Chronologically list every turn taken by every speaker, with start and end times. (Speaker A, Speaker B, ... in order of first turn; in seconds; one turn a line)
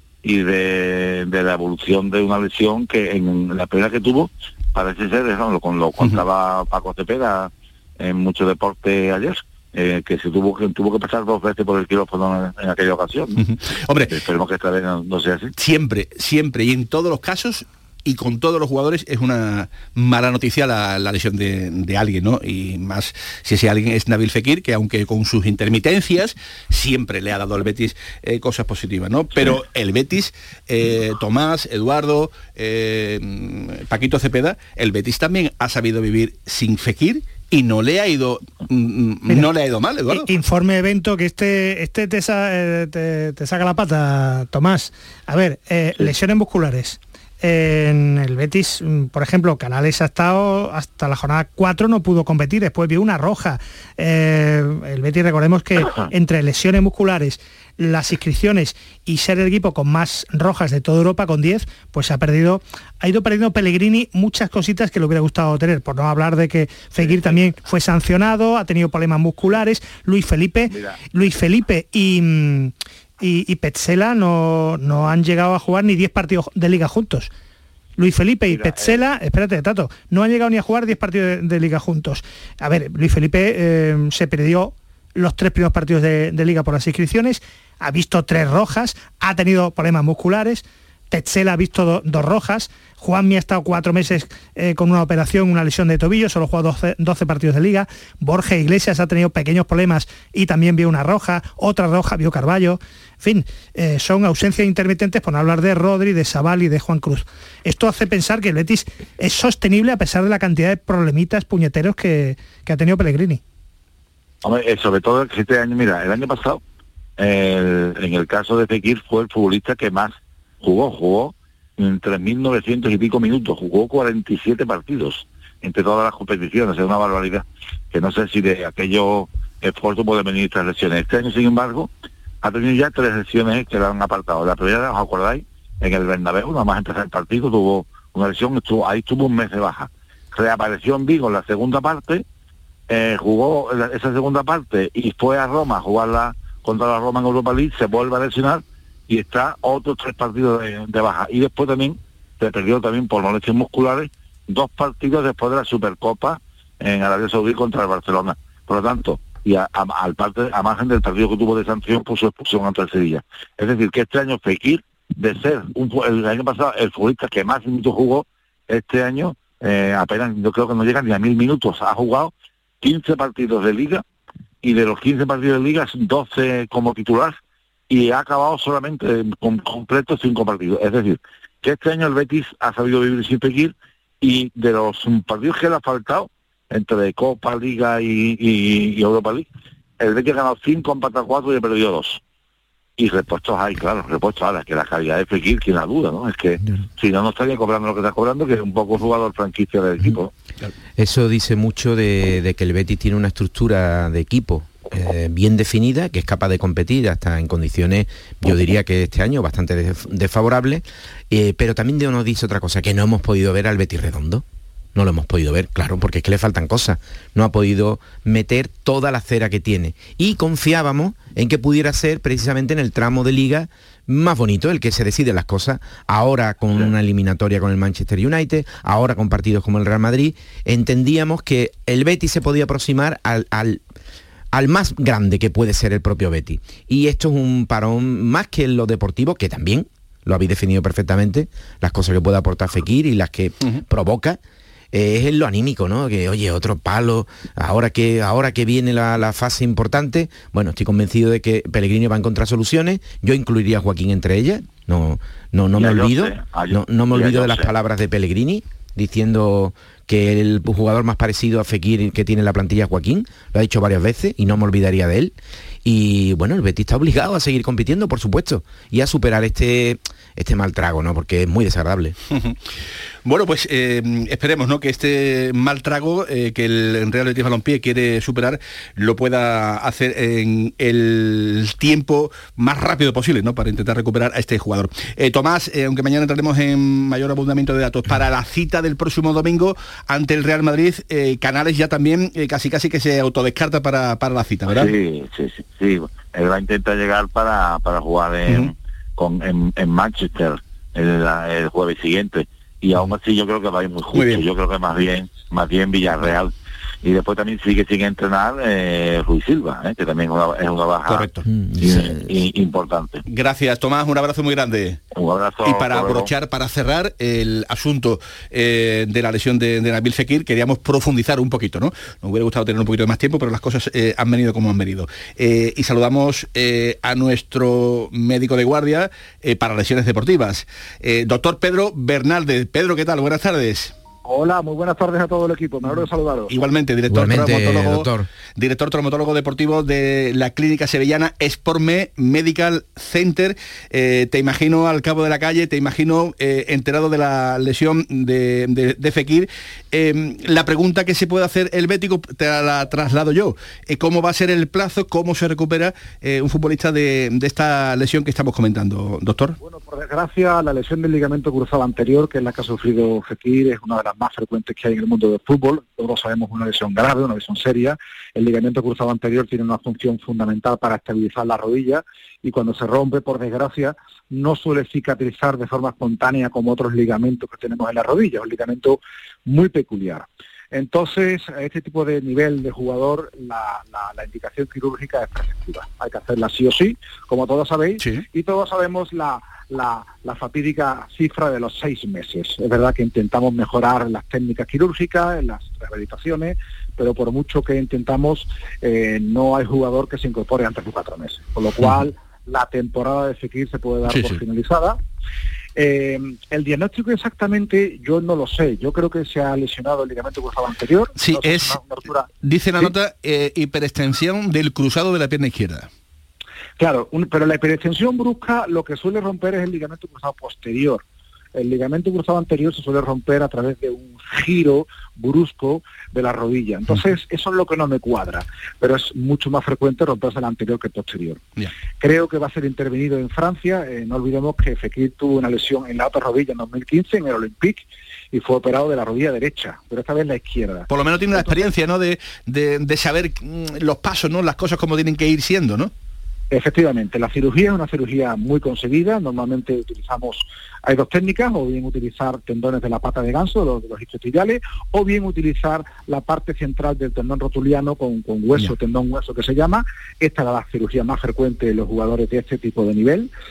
Speaker A: 0.2-13.4
Speaker B: 13.4-14.2
Speaker A: 14.1-15.5
Speaker B: 15.6-40.3
Speaker C: 40.1-77.3
Speaker A: 67.0-67.3
Speaker A: 70.7-71.0
Speaker C: 78.0-113.4
Speaker A: 78.5-79.0
Speaker A: 114.4-116.6
Speaker A: 117.2-131.9
Speaker A: 132.4-142.2
Speaker A: 142.9-174.0
Speaker A: 174.6-177.4
Speaker A: 177.9-189.5
Speaker A: 190.0-192.2
Speaker A: 193.0-200.3
Speaker D: 201.0-233.8
Speaker D: 234.5-244.4
Speaker D: 244.9-272.1
Speaker A: 255.8-257.7
Speaker B: 272.3-272.6
Speaker B: 273.2-294.9
Speaker A: 294.7-306.5
Speaker B: 298.5-298.7
Speaker B: 304.1-304.4
Speaker A: 307.0-313.2
Speaker B: 311.1-311.4
Speaker D: 311.4-312.3
Speaker B: 313.3-315.0
Speaker A: 315.1-316.3
Speaker B: 315.6-333.9
Speaker E: 334.2-336.5
Speaker B: 336.5-359.6
Speaker D: 337.1-338.3
Speaker E: 359.6-405.0
Speaker B: 404.1-404.4
Speaker E: 405.8-412.3
Speaker B: 411.2-411.8
Speaker B: 412.4-415.9
Speaker E: 416.8-421.0
Speaker E: 421.5-431.4
Speaker E: 432.0-441.6
Speaker B: 440.9-445.9
Speaker E: 446.5-463.3